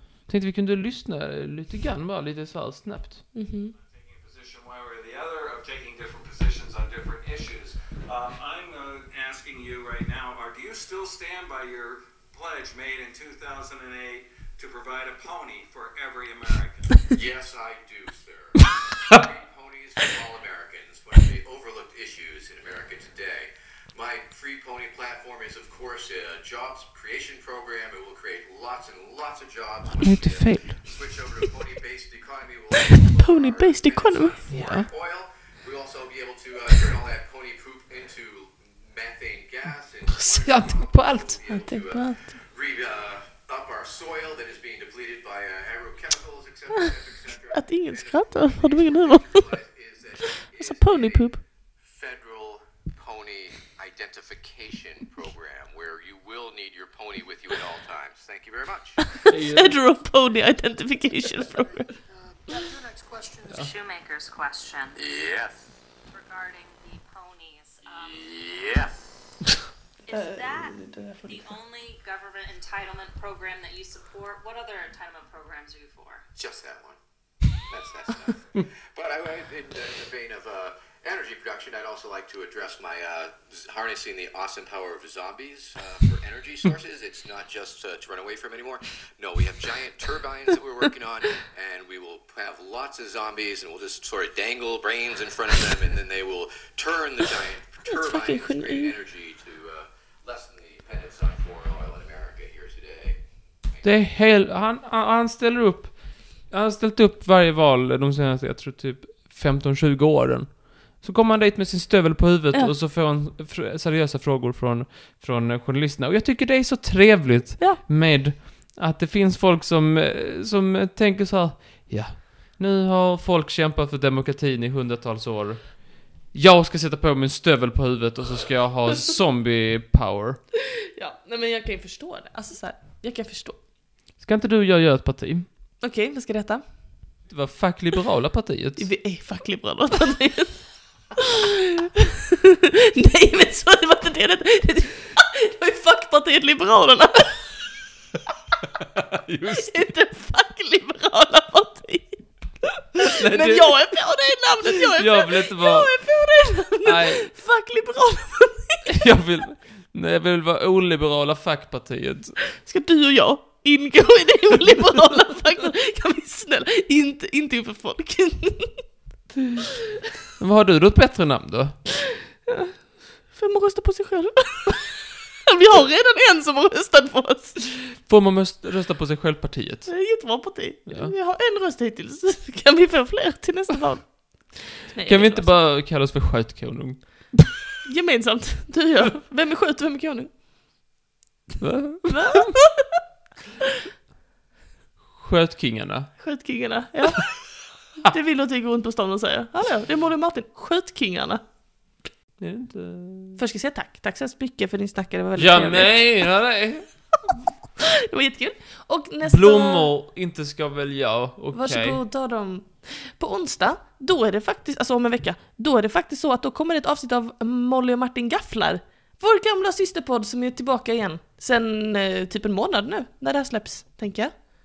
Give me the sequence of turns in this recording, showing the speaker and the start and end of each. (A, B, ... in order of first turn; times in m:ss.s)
0:00.2-0:03.3 A
0:03.3-0:03.7 B
0:03.7-0:17.1 C
0:17.1-0:59.1 D
0:30.0-0:30.8 A
0:32.8-0:34.6 B
0:34.5-0:34.9 A
0:40.1-0:41.4 A
0:41.5-0:42.3 B
0:47.5-0:49.5 B
0:50.6-0:51.4 B
0:59.1-1:01.9 B
0:59.3-0:59.8 A
1:02.5-1:05.0 E
1:05.0-1:05.6 D
1:06.1-1:08.3 E
1:08.0-1:09.0 D
1:10.0-1:16.2 E
1:10.1-1:11.5 B
1:16.4-1:17.0 D
1:17.6-1:43.2 D
1:37.9-1:38.9 B
1:43.8-2:10.4 A
2:11.0-2:13.6 B
2:14.2-2:15.5 A
2:15.8-2:16.6 B
2:17.3-2:18.9 A
2:18.8-2:20.6 B
2:21.2-2:27.5 B
2:28.8-2:29.9 A
2:29.5-2:32.3 B
2:32.9-2:39.0 B
2:33.0-2:33.9 A
2:34.9-2:35.9 A
2:36.8-2:37.3 A
2:38.9-2:42.4 A
2:42.4-2:48.8 B
2:50.4-2:51.8 A
2:52.5-2:52.7 B
2:53.3-2:57.6 B
2:58.0-3:00.1 A
2:59.9-3:05.6 B
3:00.9-3:01.1 A
3:05.0-3:07.5 A
3:07.8-3:10.3 B
3:11.6-3:12.5 A
3:12.1-3:12.9 B
3:15.1-3:16.1 A
3:16.2-3:17.4 B
3:18.0-3:21.4 B
3:22.4-3:23.4 A
3:23.4-3:26.0 B
3:25.4-3:26.8 A
3:27.8-3:29.9 B
3:29.2-3:32.0 A
3:31.5-3:44.3 B